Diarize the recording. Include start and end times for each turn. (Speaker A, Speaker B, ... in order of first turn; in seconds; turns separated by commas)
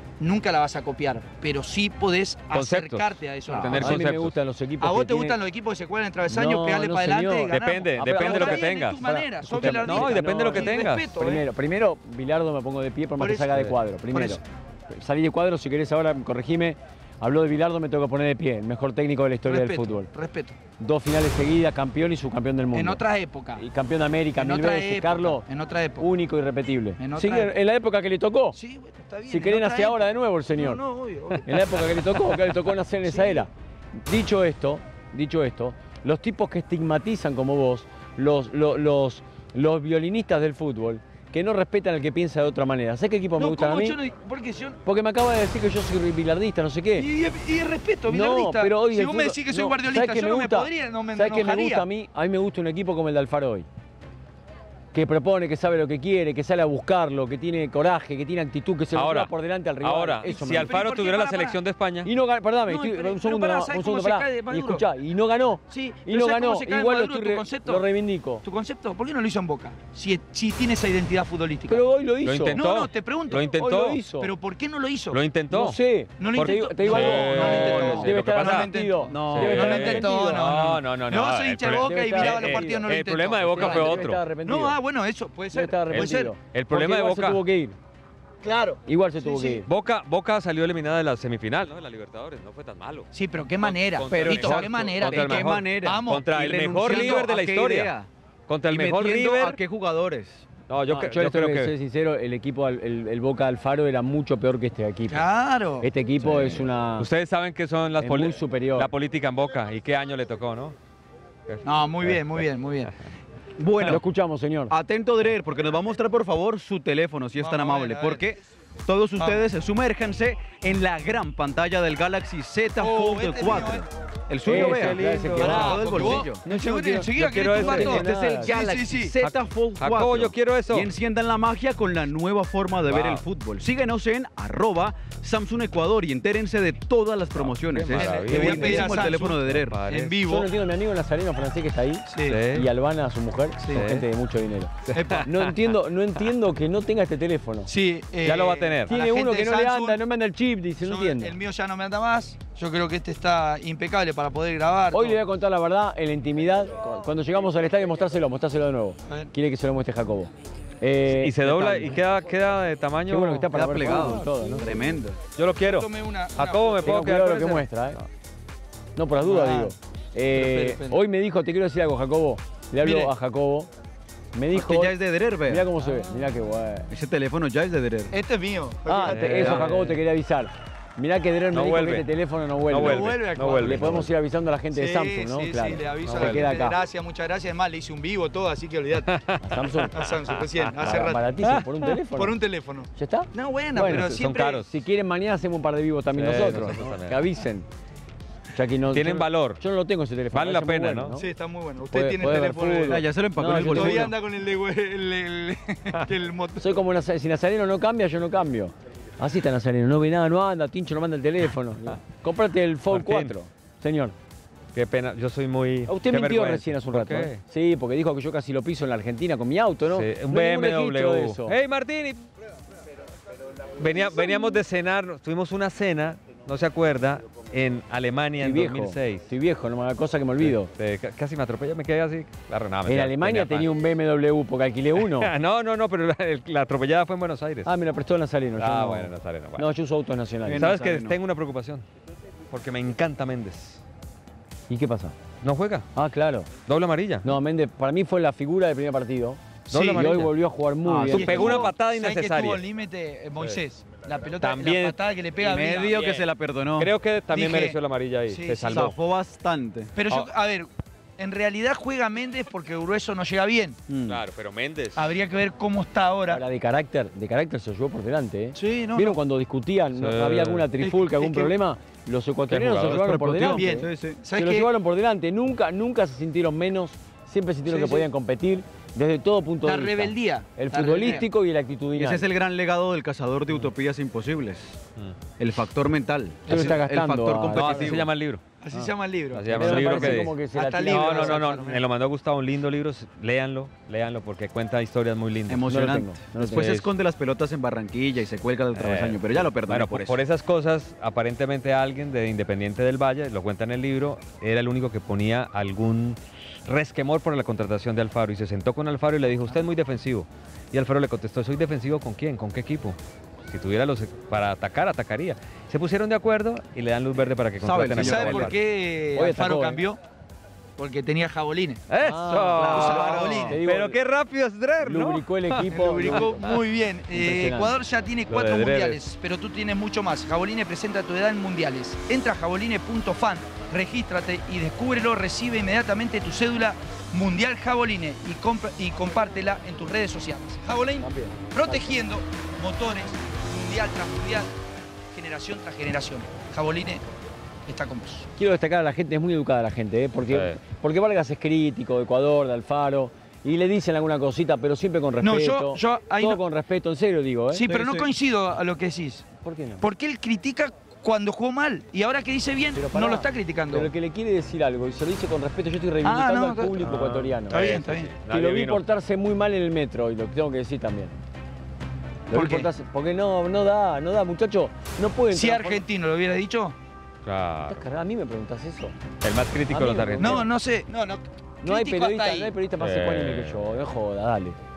Speaker A: 0.2-4.0, Speaker B: 2.5-4.3, Speaker C: 3.7-5.4, Speaker A: 4.8-11.4, Speaker C: 6.3-20.1, Speaker B: 7.5-9.0, Speaker B: 9.6-11.1, Speaker A: 13.2-14.4, Speaker A: 19.4-20.6, Speaker C: 20.8-23.0, Speaker A: 22.7-23.6, Speaker C: 23.6-25.4, Speaker A: 24.4-26.1, Speaker C: 26.0-28.6, Speaker A: 27.0-27.5, Speaker A: 28.6-32.1, Speaker C: 29.3-30.8, Speaker C: 31.4-44.0, Speaker A: 33.0-33.5, Speaker A: 43.4-44.8, Speaker C: 44.8-47.1, Speaker A: 47.0-51.9, Speaker C: 48.1-53.7, Speaker C: 54.9-60.8, Speaker B: 58.9-62.1, Speaker A: 60.5-61.6, Speaker C: 62.0-68.4, Speaker A: 62.7-64.8, Speaker A: 65.7-67.9, Speaker A: 68.4-71.8, Speaker C: 71.7-72.6, Speaker B: 72.2-74.0, Speaker A: 72.5-73.5, Speaker C: 73.5-74.3, Speaker A: 74.2-75.2, Speaker B: 75.1-75.8, Speaker C: 75.5-80.6, Speaker A: 76.2-86.3, Speaker B: 76.3-78.7, Speaker D: 79.1-79.8, Speaker B: 79.2-84.2, Speaker C: 81.7-82.9, Speaker C: 83.5-84.8, Speaker C: 85.5-87.8, Speaker B: 85.9-87.4, Speaker A: 88.4-89.6, Speaker C: 88.9-89.7, Speaker B: 89.7-97.9, Speaker A: 93.1-96.3, Speaker D: 94.1-98.1, Speaker A: 96.8-97.3, Speaker B: 98.5-99.6, Speaker D: 98.7-100.5, Speaker B: 100.7-101.7, Speaker C: 100.9-105.2, Speaker A: 105.1-105.9, Speaker C: 105.8-107.1, Speaker B: 106.2-110.7, Speaker C: 108.0-108.9, Speaker B: 111.5-112.4, Speaker A: 111.6-112.9, Speaker D: 113.5-114.0, Speaker C: 113.8-114.7, Speaker D: 114.7-126.4, Speaker A: 117.4-118.2, Speaker A: 122.8-123.8, Speaker B: 124.4-126.0, Speaker C: 124.4-128.7, Speaker A: 125.4-129.1, Speaker B: 127.1-128.1, Speaker D: 127.9-139.8, Speaker B: 129.8-130.9, Speaker B: 132.9-133.2, Speaker B: 137.4-139.1, Speaker A: 137.9-140.5, Speaker B: 139.7-140.2, Speaker C: 140.2-147.7, Speaker A: 142.1-142.4, Speaker B: 142.3-142.7, Speaker A: 143.6-143.9, Speaker B: 143.7-144.1, Speaker B: 144.9-145.5, Speaker A: 144.9-145.3, Speaker A: 147.7-150.0, Speaker B: 148.2-148.9, Speaker C: 148.9-151.3, Speaker A: 150.8-155.2, Speaker C: 154.9-161.8, Speaker B: 161.1-163.5, Speaker C: 163.1-164.9, Speaker D: 163.5-165.2, Speaker B: 165.3-167.8, Speaker A: 165.7-167.1, Speaker C: 166.8-168.0, Speaker C: 168.9-173.7, Speaker A: 169.2-169.7, Speaker A: 170.3-171.0, Speaker A: 172.8-173.1, Speaker C: 174.3-176.9, Speaker D: 174.5-175.7, Speaker D: 176.9-178.2, Speaker A: 178.1-179.5, Speaker C: 178.8-186.8, Speaker B: 179.0-179.9, Speaker D: 179.3-179.7, Speaker B: 181.5-182.1, Speaker B: 182.7-184.1, Speaker A: 182.7-184.1, Speaker A: 184.7-189.1, Speaker B: 186.1-186.5, Speaker B: 189.0-191.9, Speaker C: 189.4-190.1, Speaker A: 189.9-191.3, Speaker C: 190.8-192.3, Speaker A: 192.1-194.6, Speaker C: 192.9-197.7, Speaker B: 193.8-194.7, Speaker B: 196.1-197.3, Speaker C: 198.5-201.3, Speaker B: 198.9-199.6, Speaker B: 200.3-201.2, Speaker A: 201.2-206.8, Speaker C: 201.9-204.1, Speaker D: 202.9-204.2, Speaker C: 206.6-214.2, Speaker B: 212.9-213.3, Speaker B: 214.7-217.4, Speaker C: 215.9-221.6, Speaker B: 219.9-222.2, Speaker B: 223.8-229.3, Speaker C: 228.4-230.7, Speaker B: 230.4-233.7, Speaker C: 232.8-235.3, Speaker B: 235.0-237.7, Speaker C: 237.7-240.7, Speaker B: 238.6-239.7, Speaker D: 240.4-241.2, Speaker B: 240.5-241.8, Speaker B: 242.5-243.8, Speaker C: 244.7-245.2, Speaker B: 245.4-245.9, Speaker C: 245.9-246.5, Speaker B: 246.7-247.3, Speaker C: 247.2-251.7, Speaker A: 249.7-250.2, Speaker B: 249.7-250.3, Speaker D: 250.8-251.3, Speaker B: 251.1-252.6, Speaker A: 251.1-256.0, Speaker B: 254.4-255.0, Speaker D: 255.4-256.9, Speaker B: 255.9-258.9, Speaker A: 257.3-257.8, Speaker A: 258.3-258.9, Speaker D: 258.7-259.9, Speaker A: 259.9-263.8, Speaker D: 263.9-264.2, Speaker B: 264.1-265.1, Speaker A: 264.9-266.4, Speaker C: 266.3-282.2, Speaker A: 268.6-269.2, Speaker B: 270.0-270.7, Speaker A: 270.8-271.5, Speaker B: 272.5-273.4, Speaker D: 272.8-274.2, Speaker A: 273.4-274.7, Speaker A: 277.6-278.1, Speaker A: 279.6-281.3, Speaker D: 281.9-284.8, Speaker D: 285.4-288.1, Speaker C: 286.5-288.0, Speaker B: 287.5-288.4, Speaker A: 288.6-291.8, Speaker B: 289.3-295.7, Speaker C: 289.5-291.4, Speaker D: 295.5-300.2, Speaker C: 295.7-296.8, Speaker B: 296.4-296.9, Speaker B: 298.8-318.6, Speaker D: 317.6-318.5, Speaker A: 317.9-320.0, Speaker C: 319.1-319.8, Speaker A: 320.8-321.8, Speaker B: 321.9-326.5, Speaker C: 322.0-324.0, Speaker D: 322.6-323.6, Speaker A: 322.6-323.6, Speaker C: 324.8-326.5, Speaker A: 325.7-344.5, Speaker C: 327.1-327.7, Speaker B: 328.3-329.0, Speaker C: 341.0-341.9, Speaker A: 345.1-347.0, Speaker A: 347.7-348.3, Speaker C: 348.4-357.7, Speaker B: 350.3-350.6, Speaker A: 355.2-356.4, Speaker A: 357.5-359.3, Speaker D: 357.7-358.1, Speaker C: 359.4-359.9, Speaker A: 359.8-363.9, Speaker C: 362.7-367.6, Speaker A: 366.0-366.9, Speaker B: 366.8-368.8, Speaker A: 367.5-368.1, Speaker C: 368.3-371.1, Speaker C: 372.3-375.8, Speaker A: 372.3-372.7, Speaker A: 375.3-376.8, Speaker B: 377.2-377.7, Speaker C: 377.7-378.9, Speaker B: 379.2-380.5, Speaker C: 379.7-380.5, Speaker A: 380.2-382.6, Speaker C: 381.6-384.6, Speaker B: 382.8-383.6